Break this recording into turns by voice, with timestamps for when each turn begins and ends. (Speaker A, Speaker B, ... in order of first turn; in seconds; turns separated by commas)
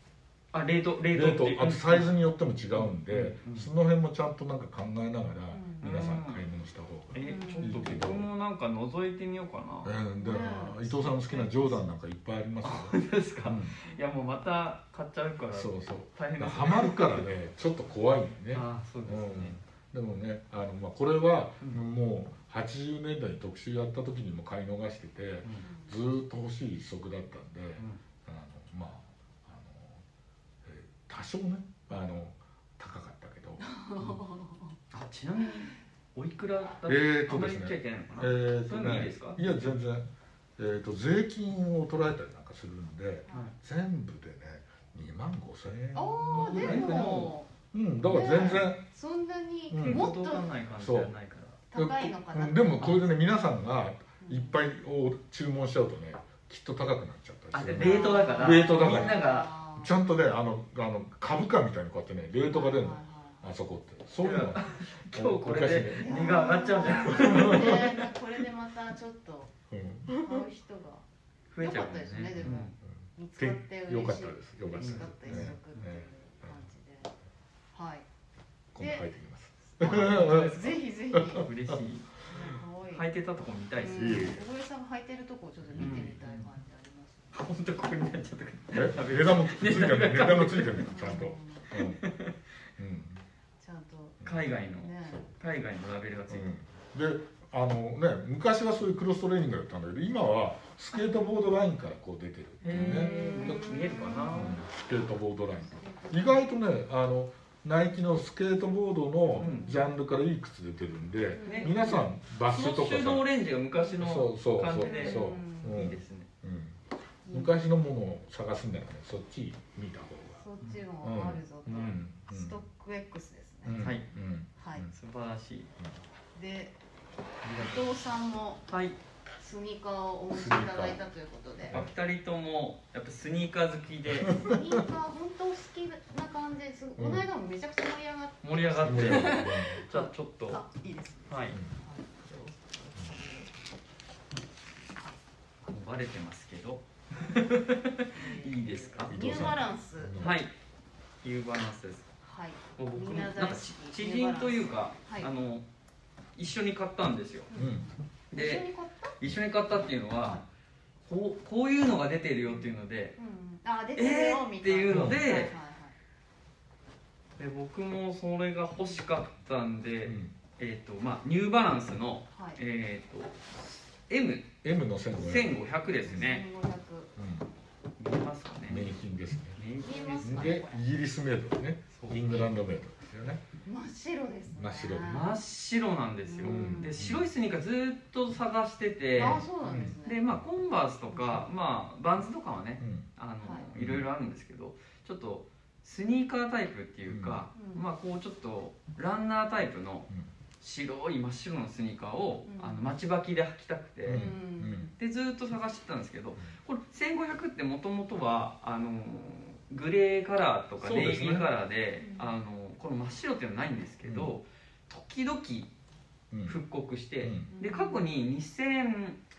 Speaker A: 0.5-2.1, Speaker B: 1.1-8.3, Speaker A: 2.8-3.7, Speaker C: 5.5-6.0, Speaker A: 5.8-6.4, Speaker A: 7.1-9.9, Speaker C: 7.2-7.9, Speaker B: 9.8-13.8, Speaker C: 10.2-11.9, Speaker A: 12.6-17.2, Speaker B: 15.5-30.0, Speaker A: 18.5-19.6, Speaker C: 25.6-25.9, Speaker B: 30.6-33.6, Speaker C: 33.6-34.8, Speaker A: 34.9-39.4, Speaker B: 36.9-48.8, Speaker C: 45.9-47.5, Speaker A: 46.4-47.3, Speaker C: 48.0-50.5, Speaker B: 49.7-50.1, Speaker A: 49.8-51.6, Speaker B: 50.8-51.1, Speaker C: 51.7-53.1, Speaker B: 51.7-66.3, Speaker C: 54.2-54.6, Speaker A: 57.5-59.5, Speaker C: 57.7-59.9, Speaker C: 62.4-63.4, Speaker A: 64.2-68.1, Speaker C: 66.0-69.5, Speaker B: 67.0-67.8, Speaker B: 69.7-70.5, Speaker C: 70.1-71.0, Speaker A: 71.5-72.7, Speaker C: 71.6-77.1, Speaker B: 72.4-76.6, Speaker A: 74.8-75.9, Speaker C: 77.7-78.1, Speaker B: 78.7-81.8, Speaker C: 78.8-79.0, Speaker C: 79.8-81.5, Speaker A: 79.9-80.6, Speaker A: 81.4-82.1, Speaker C: 82.3-83.1, Speaker A: 82.8-84.4, Speaker C: 83.8-87.4, Speaker B: 84.0-84.4, Speaker B: 85.6-86.2, Speaker A: 85.8-86.5, Speaker A: 87.3-91.2, Speaker B: 88.7-92.0, Speaker C: 90.8-91.8, Speaker A: 91.7-92.4, Speaker B: 92.8-93.2, Speaker C: 93.6-95.3, Speaker B: 94.2-94.5, Speaker A: 94.2-96.5, Speaker B: 96.3-103.7, Speaker C: 101.0-101.3, Speaker A: 102.6-104.6, Speaker C: 102.6-104.7, Speaker B: 104.3-113.3, Speaker C: 105.6-106.5, Speaker A: 109.4-109.8, Speaker C: 109.4-109.8, Speaker C: 111.3-111.9, Speaker A: 111.4-116.3, Speaker B: 114.0-116.8, Speaker C: 114.8-115.9, Speaker C: 117.2-117.6, Speaker B: 117.3-120.4, Speaker C: 120.4-123.8, Speaker B: 121.0-122.6, Speaker B: 123.7-124.9, Speaker A: 123.8-124.0, Speaker C: 124.6-124.9, Speaker A: 124.9-125.7, Speaker C: 126.3-126.8, Speaker C: 127.5-128.6, Speaker A: 128.7-129.0, Speaker C: 129.4-131.8, Speaker B: 130.3-131.0, Speaker A: 131.7-134.4, Speaker B: 134.2-134.8, Speaker C: 134.3-143.5, Speaker B: 137.0-137.3, Speaker A: 138.4-140.6, Speaker B: 138.8-139.8, Speaker A: 141.3-141.6, Speaker A: 145.7-149.5, Speaker C: 148.1-150.2, Speaker B: 149.1-150.4, Speaker A: 150.2-150.5, Speaker A: 151.2-152.1, Speaker C: 152.2-155.3, Speaker A: 152.8-155.7, Speaker A: 156.4-157.5, Speaker C: 157.5-159.2, Speaker B: 157.5-157.9, Speaker A: 158.3-158.7, Speaker A: 159.2-160.4, Speaker A: 161.1-163.2, Speaker C: 162.5-165.9, Speaker A: 164.0-165.5, Speaker B: 164.9-165.2, Speaker A: 167.4-174.6, Speaker B: 170.0-170.4, Speaker C: 172.3-172.6, Speaker B: 174.6-176.4, Speaker A: 175.1-176.4, Speaker C: 176.0-177.2, Speaker B: 177.2-177.5, Speaker A: 178.0-178.9, Speaker B: 178.7-179.6, Speaker A: 179.6-180.6, Speaker C: 179.8-180.8, Speaker B: 180.2-183.4, Speaker A: 181.9-182.2, Speaker C: 183.6-185.3, Speaker B: 184.6-185.2, Speaker A: 185.1-189.5, Speaker C: 186.2-187.0, Speaker B: 186.4-187.3, Speaker C: 189.2-190.2, Speaker B: 189.2-190.4, Speaker A: 190.0-200.1, Speaker C: 191.1-191.5, Speaker B: 192.8-193.1, Speaker C: 193.4-193.7, Speaker B: 193.8-194.1, Speaker B: 197.1-197.4, Speaker C: 197.6-197.8, Speaker A: 200.6-204.3, Speaker C: 202.5-202.9, Speaker B: 204.1-204.9, Speaker C: 204.1-204.9, Speaker A: 205.0-215.7, Speaker B: 210.8-211.5, Speaker C: 212.0-212.3, Speaker B: 214.0-214.3, Speaker B: 216.3-216.6, Speaker A: 216.5-219.2, Speaker B: 217.2-217.5, Speaker C: 217.5-218.1